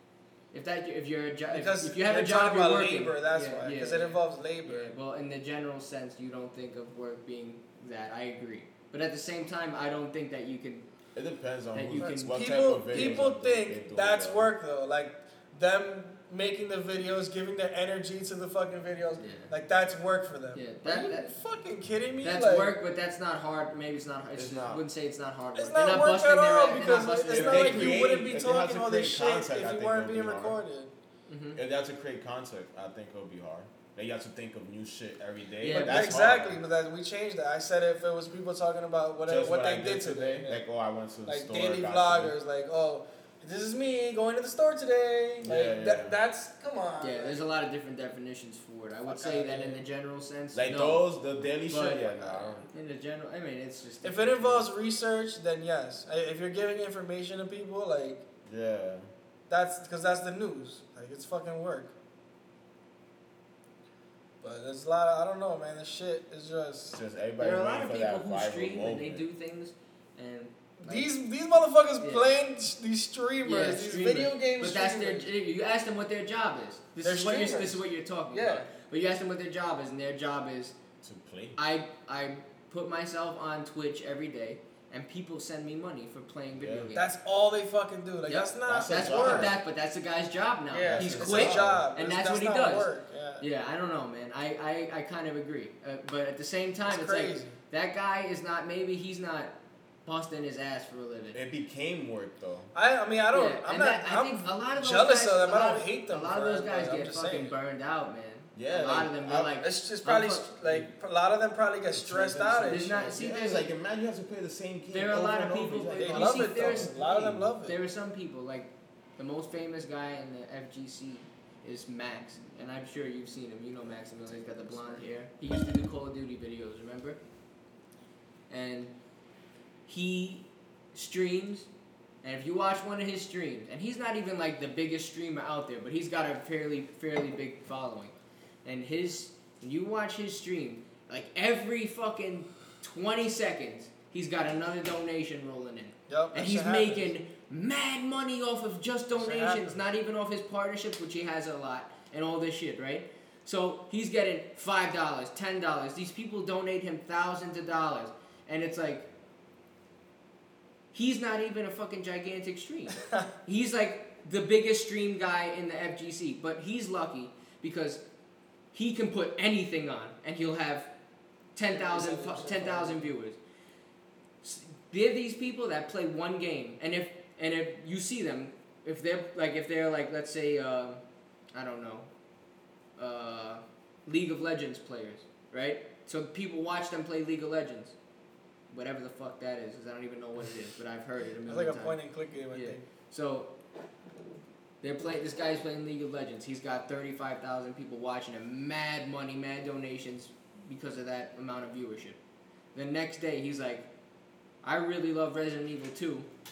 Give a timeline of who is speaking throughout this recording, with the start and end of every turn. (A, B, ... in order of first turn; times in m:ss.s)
0:00.5-0:10.9 A
0:01.5-0:04.9 B
0:11.2-0:14.5 C
0:11.7-0:13.3 A
0:12.0-0:22.7 B
0:19.2-0:19.5 A
0:20.6-0:21.3 A
0:22.2-0:28.2 A
0:24.4-0:24.8 C
0:25.6-0:30.9 B
0:27.2-0:30.6 C
0:31.3-0:31.6 A
0:31.6-0:36.6 C
0:35.6-0:36.1 A
0:35.7-0:40.6 B
0:39.3-0:42.4 C
0:41.3-0:47.4 B
0:45.4-0:46.2 C
0:47.0-0:51.1 A
0:49.1-0:49.8 B
0:50.5-0:52.7 C
0:51.7-0:54.7 A
0:54.0-0:58.2 B
0:58.5-0:59.1 C
0:59.5-1:01.9 B
1:04.4-1:07.0 B
1:06.9-1:09.2 C
1:07.4-1:11.1 A
1:10.8-1:15.3 B
1:12.0-1:12.3 A
1:13.4-1:20.8 A
1:17.0-1:18.7 B
1:21.0-1:21.6 C
1:21.6-1:27.1 A
1:26.6-1:26.9 C
1:27.0-1:29.5 B
1:28.2-1:39.5 A
1:28.7-1:29.6 C
1:30.7-1:33.5 B
1:30.9-1:31.9 C
1:36.9-1:37.6 B
1:40.1-1:41.4 A
1:41.3-1:42.7 C
1:42.8-1:47.6 B
1:43.3-1:50.5 A
1:48.6-1:49.5 C
1:49.6-1:53.2 B
1:51.9-1:57.5 C
1:52.7-1:53.7 A
1:54.9-2:07.2 A
1:56.0-1:57.8 B
2:04.4-2:05.0 C
2:08.5-2:08.9 A
2:09.9-2:11.7 A
2:12.2-2:39.1 A
2:26.1-2:27.1 B
2:29.1-2:29.8 B
2:40.9-2:48.0 A
2:48.7-2:50.9 A
2:51.6-2:53.4 A
2:51.7-2:53.1 B
2:54.4-3:01.0 A
3:01.5-3:02.1 A
3:03.0-3:08.0 A
3:08.7-3:12.0 A
3:11.5-3:12.8 B
3:12.5-3:13.5 A
3:14.8-3:22.2 A
3:22.7-3:23.9 A
3:24.6-3:26.3 A